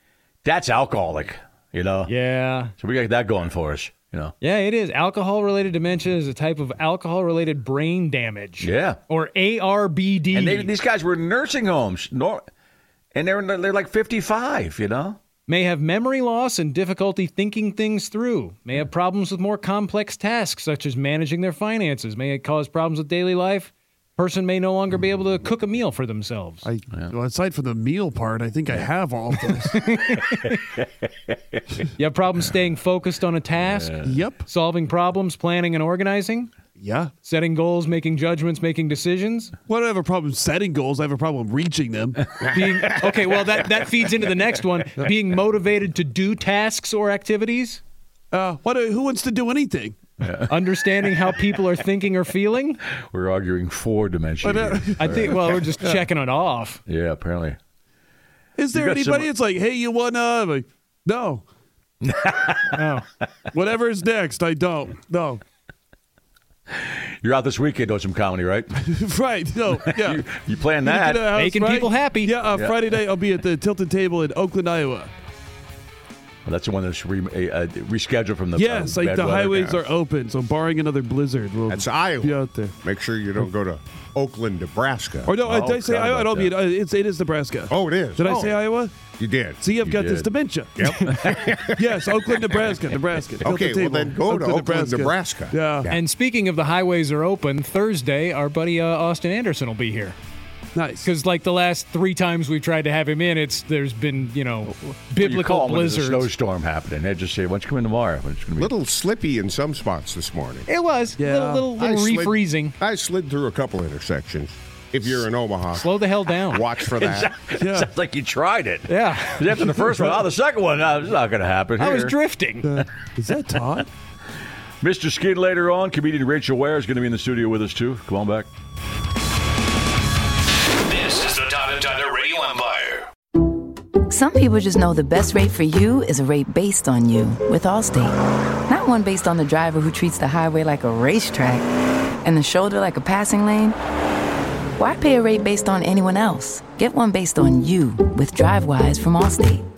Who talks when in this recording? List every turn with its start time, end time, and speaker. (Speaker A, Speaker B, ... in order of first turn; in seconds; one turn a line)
Speaker A: 0.4-2.1
Speaker B: 2.1-2.7
Speaker A: 2.8-4.3
Speaker B: 4.4-10.7
Speaker A: 8.6-9.0
Speaker A: 10.3-12.4
Speaker A: 13.1-15.2
Speaker B: 15.5-26.6
Speaker C: 26.6-29.7
Speaker B: 29.7-30.6
Speaker B: 32.0-36.5
Speaker A: 33.6-34.2
Speaker C: 34.0-34.4
Speaker C: 36.8-37.1
Speaker B: 37.2-39.5
Speaker C: 39.7-42.3
Speaker B: 42.5-47.8
Speaker D: 42.6-43.0
Speaker C: 48.3-50.0
Speaker A: 50.2-50.5
Speaker B: 50.5-52.8
Speaker A: 53.0-55.7
Speaker C: 54.4-56.0
Speaker B: 55.0-56.8
Speaker A: 56.9-57.6
Speaker C: 58.6-61.4
Speaker A: 58.7-59.3
Speaker A: 62.0-62.8
Speaker B: 62.7-63.0
Speaker C: 63.5-65.4
Speaker A: 66.7-68.7
Speaker C: 68.8-70.2
Speaker A: 69.9-71.3
Speaker C: 70.8-75.1
Speaker B: 71.3-72.3
Speaker A: 72.5-72.8
Speaker A: 76.4-79.7
Speaker C: 78.5-82.7
Speaker D: 79.5-79.8
Speaker D: 81.7-85.3
Speaker C: 85.2-88.9
Speaker A: 85.4-86.5
Speaker D: 87.7-88.5
Speaker B: 88.2-88.5
Speaker D: 89.2-89.6
Speaker C: 89.6-90.8
Speaker A: 89.8-90.3
Speaker D: 90.8-92.0
Speaker A: 90.8-91.6
Speaker C: 91.8-95.9
Speaker D: 93.4-96.0
Speaker B: 95.9-100.2
Speaker C: 100.7-101.1
Speaker B: 101.0-106.3
Speaker A: 105.2-108.7
Speaker D: 108.6-110.7
Speaker B: 110.7-112.7
Speaker C: 111.2-111.7
Speaker D: 111.8-115.9
Speaker B: 115.7-116.6
Speaker D: 116.5-117.3
Speaker A: 116.9-122.2
Speaker C: 117.5-117.9
Speaker B: 118.9-119.5
Speaker C: 119.6-120.2
Speaker B: 121.8-122.7
Speaker C: 122.6-123.9
Speaker A: 124.8-128.5
Speaker E: 130.9-133.0
Speaker F: 134.1-138.2
Speaker F: 138.7-141.7
Speaker F: 142.2-143.7
Speaker F: 144.8-149.6